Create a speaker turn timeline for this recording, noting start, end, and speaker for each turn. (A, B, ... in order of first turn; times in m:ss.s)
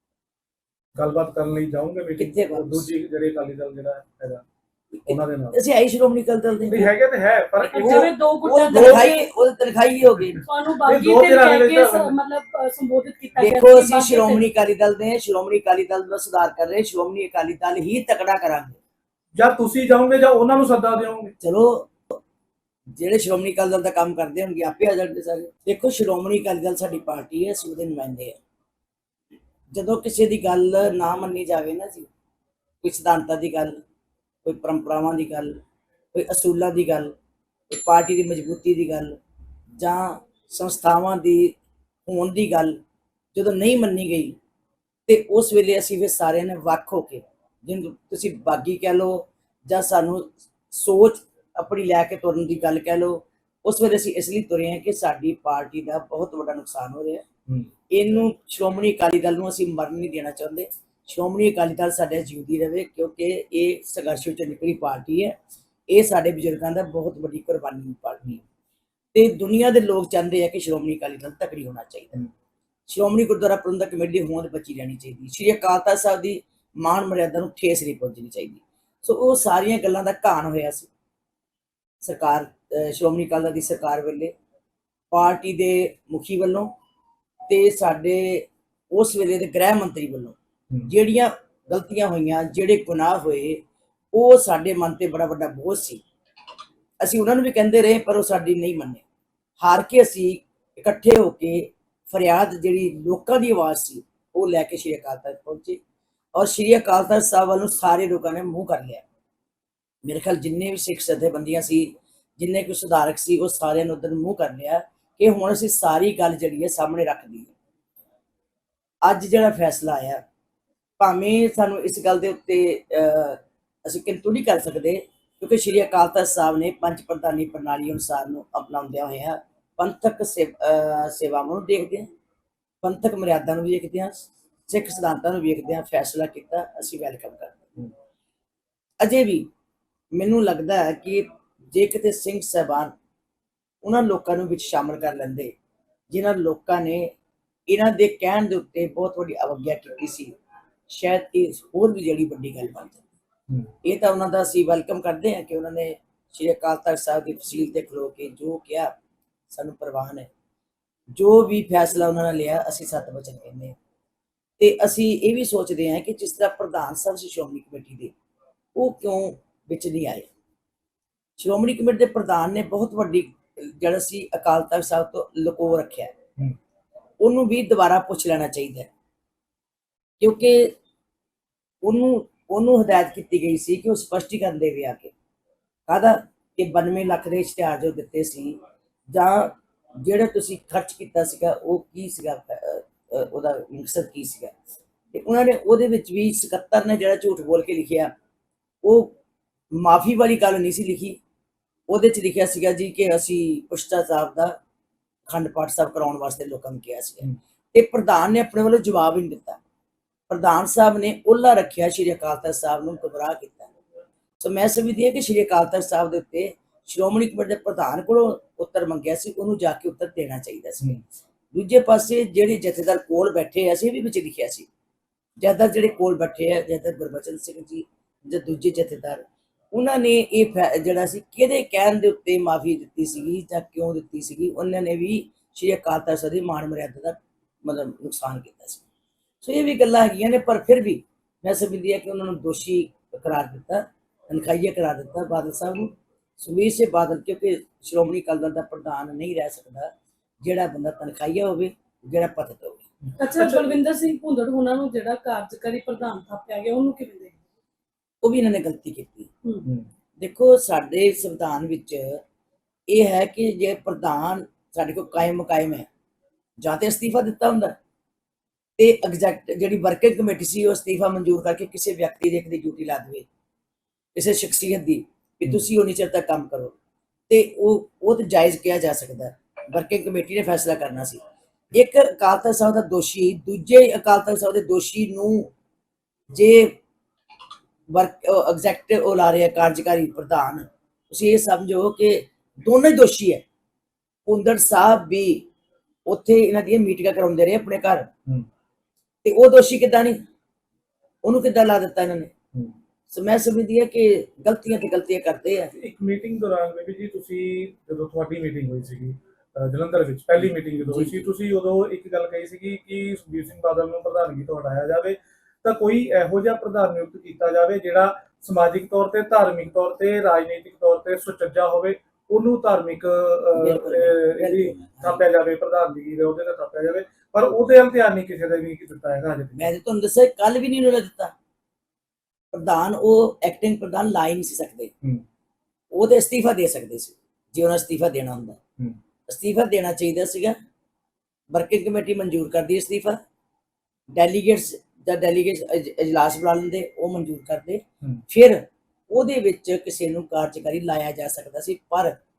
0:01.0-0:04.4 A
0:02.2-0:02.9 B
0:04.9-0:06.9 B
0:05.1-0:05.6 A
0:06.7-0:08.1 A
0:07.6-0:10.5 B
0:07.7-0:09.3 C
0:08.7-0:09.1 A
0:10.4-0:14.5 C
0:10.8-0:12.2 A
0:13.4-0:18.8 B
0:19.4-0:21.3 A
0:21.4-0:22.2 B
0:23.0-0:28.4 B
0:29.7-0:32.1 B
0:32.8-0:33.8 B
0:34.4-0:35.6 B
0:36.1-0:37.1 B
0:37.7-0:39.2 B
0:39.8-0:42.8 B
0:43.3-0:44.4 B
0:45.1-0:57.2 B
0:57.9-1:05.4 B
1:05.9-1:08.4 B
1:09.1-1:12.3 B
1:12.9-1:20.9 B
1:22.0-1:24.3 B
1:25.1-1:26.7 B
1:27.5-1:30.4 B
1:30.9-1:33.6 B
1:34.1-1:36.0 B
1:37.0-1:39.0 B
1:39.6-1:45.8 B
1:46.4-1:49.0 B
1:50.0-1:57.5 B
1:59.0-2:00.2 B
2:01.0-2:12.1 B
2:12.8-2:17.9 B
2:19.0-2:19.5 B
2:20.2-2:22.9 B
2:23.8-2:25.5 B
2:26.1-2:27.1 B
2:27.7-2:30.3 B
2:30.9-2:33.0 B
2:33.8-2:39.0 B
2:39.5-2:40.3 B
2:41.2-2:43.8 B
2:44.6-2:48.1 B
2:48.8-2:50.3 B
2:51.4-2:56.2 B
2:57.2-2:58.9 B
3:00.2-3:00.7 B
3:01.8-3:05.1 B
3:05.9-3:08.6 B
3:09.1-3:14.5 B
3:15.1-3:18.1 B
3:18.8-3:19.2 B
3:19.7-3:21.2 B
3:21.9-3:24.6 B
3:25.3-3:29.6 B
3:30.3-3:33.7 B
3:34.4-3:41.0 B
3:41.5-3:44.7 B
3:45.4-3:58.8 B
3:59.4-4:12.8 B
4:13.0-4:13.7 A
4:13.2-4:17.4 C
4:18.2-4:19.3 B
4:20.2-4:22.2 B
4:22.9-4:25.9 B
4:26.6-4:27.8 B
4:28.8-4:33.3 B
4:34.2-4:36.7 B
4:37.3-4:41.2 B
4:41.7-4:45.5 B
4:46.3-4:46.8 B
4:47.9-4:53.4 B
4:54.3-4:55.5 B
4:56.1-4:58.1 B
4:59.2-5:00.2 B
5:01.2-5:02.3 B
5:03.1-5:05.7 B
5:05.7-5:29.7 A
5:10.4-5:11.3 B
5:23.6-5:25.2 B
5:29.6-5:31.3 B
5:32.5-5:34.9 B
5:35.9-5:38.6 B
5:39.3-5:40.6 B
5:41.5-5:43.2 B
5:44.1-5:52.2 B